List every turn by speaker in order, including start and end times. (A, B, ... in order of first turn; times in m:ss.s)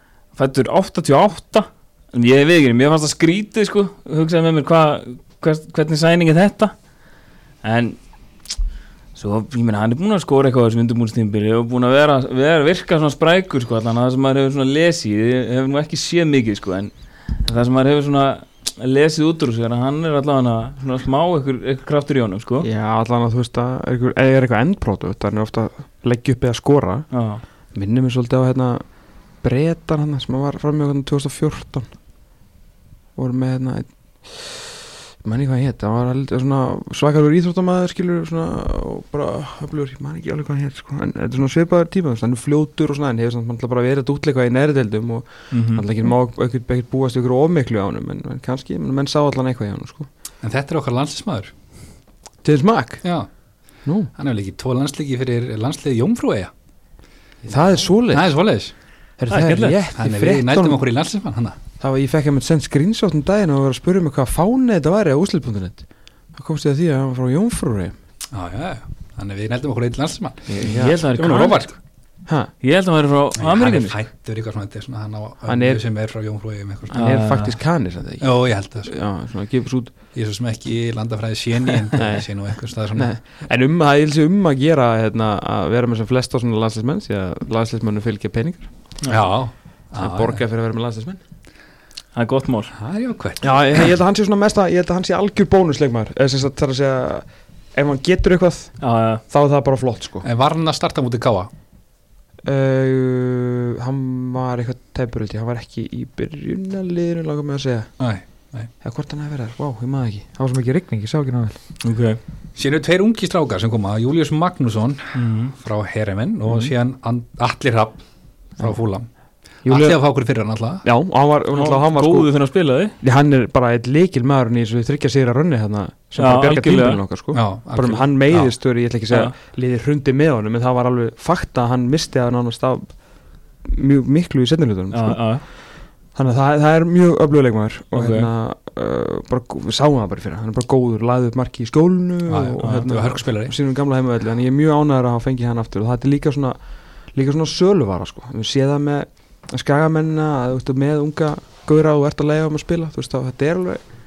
0:00.4-0:06.7 A
0:07.6-0:08.0 A
0:09.2-0:22.7 A
0:22.6-0:27.1 B
0:27.1-0:27.4 A
0:27.7-0:28.8 B
0:29.4-0:31.9 B
0:33.2-0:50.1 B
0:45.5-0:45.8 A
0:50.4-0:51.5 C
0:52.4-0:53.0 B
0:53.0-0:53.3 C
0:53.8-0:54.1 B
0:54.2-0:56.5 C
0:57.4-0:58.4 B
0:58.1-0:58.7 C
0:59.2-1:00.8 B
0:59.3-0:59.8 A
1:00.0-1:01.6 C
1:01.8-1:08.0 B
1:08.3-1:10.6 C
1:10.5-1:11.0 B
1:10.6-1:11.7 A
1:11.2-1:11.7 C
1:12.3-1:12.5 B
1:12.6-1:14.0 A
1:13.4-1:17.0 C
1:15.5-1:15.8 B
1:16.9-1:19.9 B
1:16.9-1:17.5 A
1:18.2-1:18.9 C
1:20.1-1:23.1 C
1:21.9-1:22.3 B
1:22.9-1:28.7 B
1:29.1-1:30.4 C
1:30.0-1:31.2 B
1:32.2-1:32.7 A
1:32.7-1:33.6 C
1:33.4-1:40.3 B
1:38.8-1:39.2 A
1:40.2-1:41.5 C
1:42.4-1:47.9 B
1:48.0-1:48.7 C
1:48.8-1:51.6 B
1:51.8-1:52.2 A
1:52.6-1:58.0 C
1:55.1-1:55.5 A
1:56.5-1:56.7 B
1:58.6-1:59.1 C
1:59.6-2:00.0 B
1:59.6-2:00.9 C
2:00.8-2:02.3 B
2:01.5-2:03.0 A
2:03.0-2:12.9 B
2:06.2-2:07.0 A
2:07.3-2:08.5 C
2:13.6-2:15.2 B
2:14.9-2:15.4 A
2:16.2-2:26.6 B
2:17.9-2:18.3 A
2:22.3-2:23.5 C
2:22.6-2:22.9 A
2:27.1-2:33.8 B